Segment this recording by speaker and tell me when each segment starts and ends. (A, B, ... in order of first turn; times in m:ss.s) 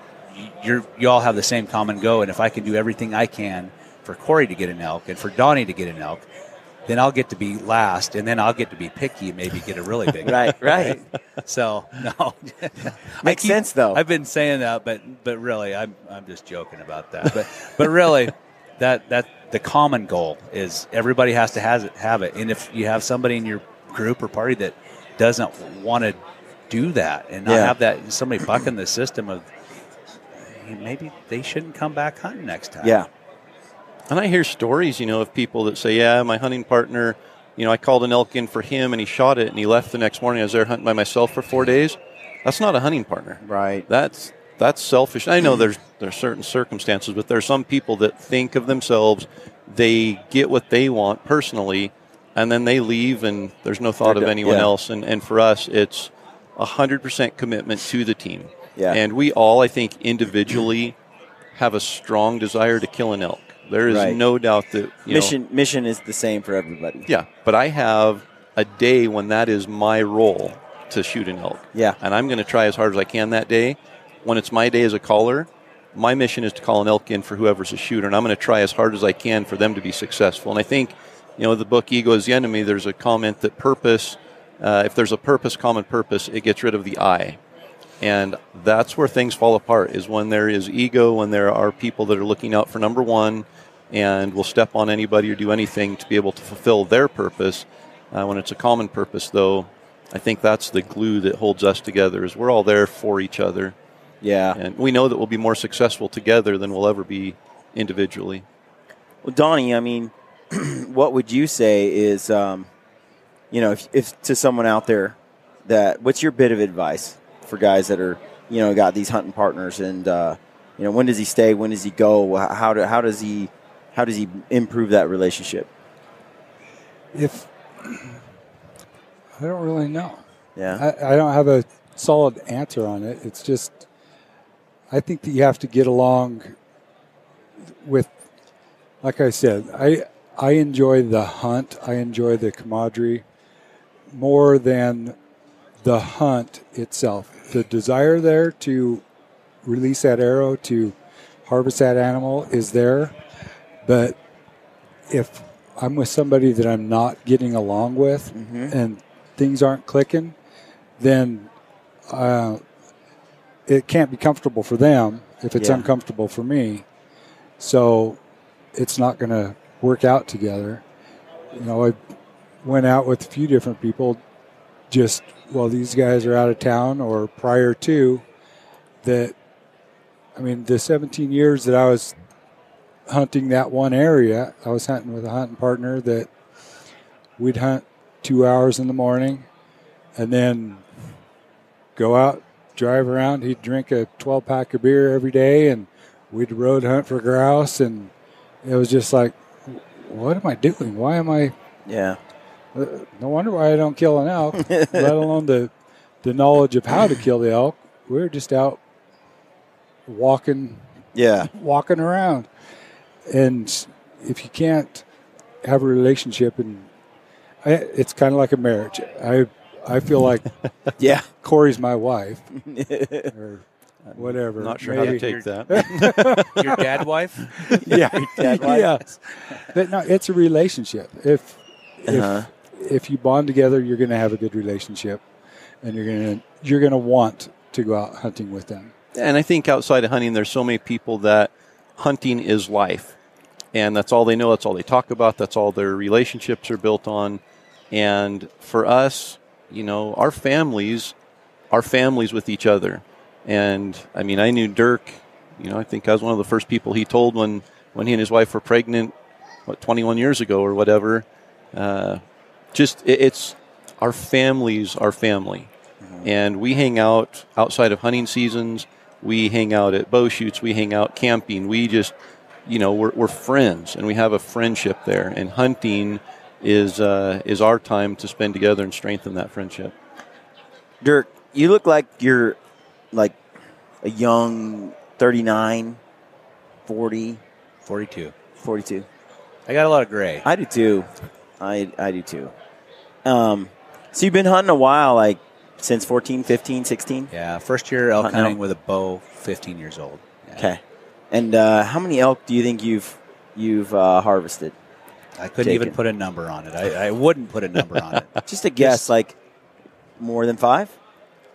0:00.3-0:06.2 A
0:06.9-0:26.2 A
0:10.2-0:11.0 B
0:13.2-0:14.0 B
0:26.7-0:29.5 A
0:27.5-0:27.8 B
0:30.4-0:33.0 A
0:32.8-0:33.1 B
0:34.1-1:01.0 C
0:43.4-0:43.9 B
0:54.0-0:54.7 B
1:01.6-1:05.3 C
1:03.9-1:04.2 B
1:05.1-1:07.1 B
1:07.1-1:27.4 C
1:28.0-1:43.8 C
1:44.2-1:44.6 B
1:44.6-1:48.4 C
1:49.2-1:52.7 B
1:53.5-2:05.7 B
2:07.1-2:08.2 D
2:09.4-2:10.2 D
2:10.6-2:10.8 B
2:10.7-2:13.8 D
2:14.9-2:16.5 D
2:17.8-2:18.1 D
2:19.0-2:23.2 D
2:24.1-2:25.2 D
2:25.8-2:29.0 D
2:29.6-2:33.2 D
2:33.8-2:34.2 D
2:35.1-2:40.4 D
2:38.3-2:38.8 B
2:41.0-2:41.5 D
2:42.1-2:42.6 D
2:43.7-2:46.9 D
2:45.6-2:45.9 B
2:47.6-2:48.2 D
2:48.8-2:50.8 D
2:51.5-2:52.0 D
2:52.6-2:54.2 D
2:54.9-2:58.2 D
2:59.0-2:59.4 D
3:00.4-3:02.1 D
3:03.1-3:06.3 D
3:07.4-3:09.5 D
3:10.2-3:10.8 D
3:12.0-3:18.1 D
3:18.6-3:21.5 D
3:21.9-3:22.2 B
3:22.8-3:25.7 D
3:24.6-3:25.2 B
3:26.2-3:28.8 D
3:30.1-3:30.8 D
3:31.2-3:31.5 B
3:31.6-3:32.5 D
3:33.3-3:35.0 D
3:35.6-3:36.9 D
3:37.6-3:40.5 D
3:41.0-3:41.3 B
3:41.4-3:42.5 D
3:42.5-3:43.3 B
3:43.3-3:43.6 D
3:44.1-3:46.8 C
3:44.2-3:46.8 D
3:45.0-3:45.9 A
3:46.5-3:47.5 A
3:47.6-3:55.2 D
3:47.8-3:48.9 B
3:52.1-3:52.5 B
3:55.8-3:58.9 D
3:59.2-4:03.2 C
4:03.7-4:07.4 C
4:07.9-4:11.2 C
4:11.7-4:19.1 C
4:19.7-4:22.2 C
4:22.7-4:25.7 C
4:26.0-4:26.3 B
4:26.2-4:32.1 C
4:32.7-4:39.9 C
4:41.0-4:42.6 B
4:43.1-4:43.4 B
4:44.0-4:46.0 B
4:46.9-4:47.4 B
4:47.8-4:48.3 A
4:48.6-4:49.1 B
4:49.7-4:50.5 A
4:50.4-4:52.5 B
4:53.2-4:57.3 B
4:57.3-5:00.7 A
4:58.2-4:58.6 B
5:00.6-5:04.8 B
5:05.4-5:09.1 A
5:05.6-5:06.0 B
5:08.5-5:09.4 B
5:10.2-5:11.0 B